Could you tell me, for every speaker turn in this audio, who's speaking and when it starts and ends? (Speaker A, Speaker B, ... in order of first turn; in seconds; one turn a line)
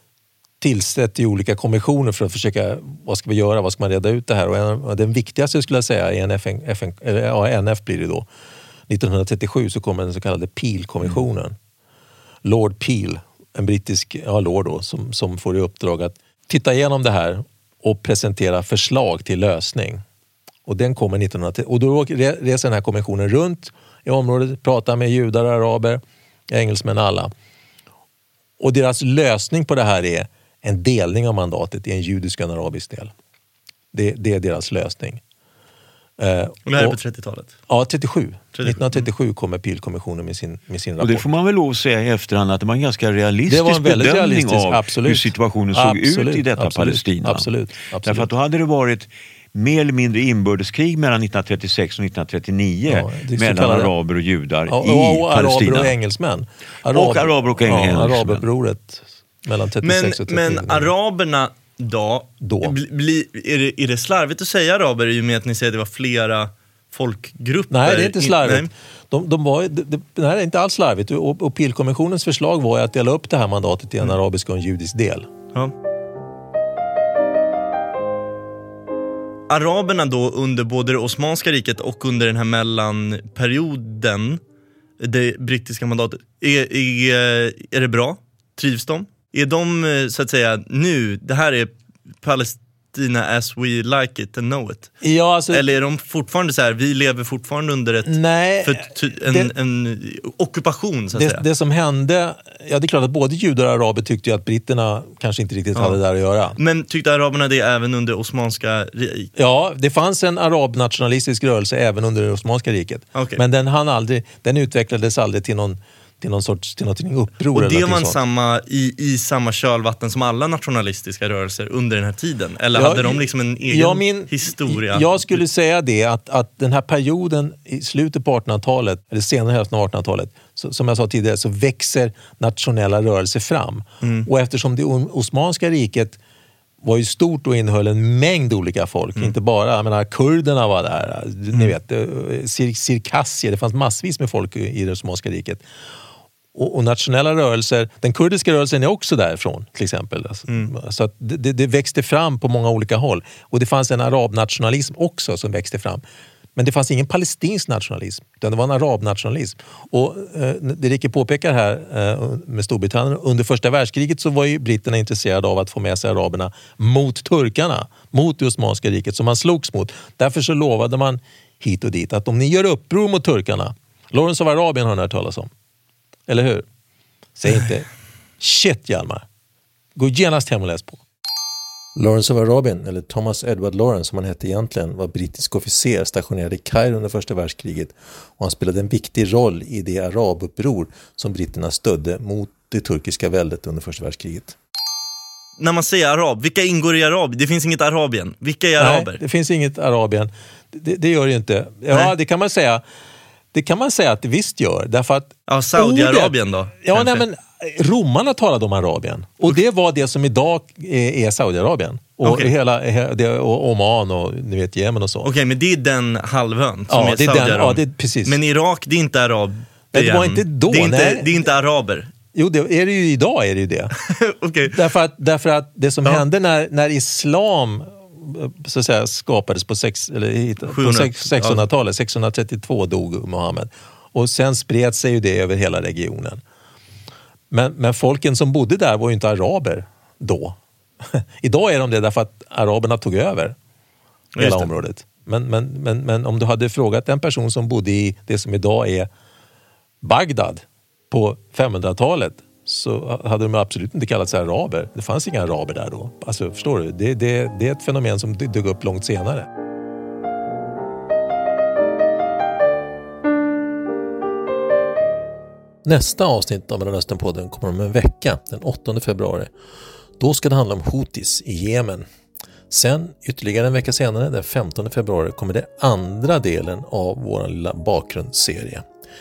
Speaker A: 0.6-8.3
Speaker A: 8.9-11.5
Speaker A: 12.4-20.0
Speaker A: 20.6-27.3
Speaker A: 28.6-33.1
Speaker A: 33.9-35.2
Speaker A: 36.2-37.0
Speaker B: 36.6-37.5
Speaker A: 37.7-41.2
Speaker B: 38.5-39.0
Speaker C: 41.0-47.5
Speaker A: 43.5-48.3
Speaker C: 48.0-55.9
Speaker A: 52.9-53.9
Speaker A: 54.7-60.9
Speaker C: 56.9-58.4
Speaker B: 59.8-68.7
Speaker A: 62.4-62.7
Speaker A: 67.7-75.3
Speaker B: 79.5-84.4
Speaker B: 85.0-101.4
Speaker A: 95.0-95.6
Speaker A: 98.0-99.5
Speaker A: 101.1-106.6
Speaker B: 106.5-109.3
Speaker A: 109.3-118.2
Speaker B: 113.1-113.4
Speaker B: 117.5-125.4
Speaker A: 122.7-136.2
Speaker B: 134.0-134.3
Speaker A: 136.8-145.6
Speaker A: 146.5-156.0
Speaker A: 156.6-175.5
Speaker A: 176.3-176.6
Speaker A: 177.4-177.9
Speaker A: 178.4-179.2
Speaker A: 179.9-181.0
Speaker A: 181.9-194.5
Speaker B: 195.6-199.2
Speaker A: 198.8-202.8
Speaker A: 203.5-215.3
Speaker B: 205.5-207.2
Speaker B: 212.2-212.5
Speaker B: 215.2-222.1
Speaker A: 216.9-218.4
Speaker A: 219.9-221.5
Speaker A: 222.3-223.9
Speaker B: 224.0-224.8
Speaker A: 224.6-236.4
Speaker B: 230.7-231.6
Speaker A: 237.5-240.6
Speaker A: 241.1-243.5
Speaker B: 244.3-244.7
Speaker A: 244.4-249.1
Speaker A: 250.0-259.5
Speaker A: 265.8-269.5
Speaker A: 270.2-272.0
Speaker A: 272.7-278.8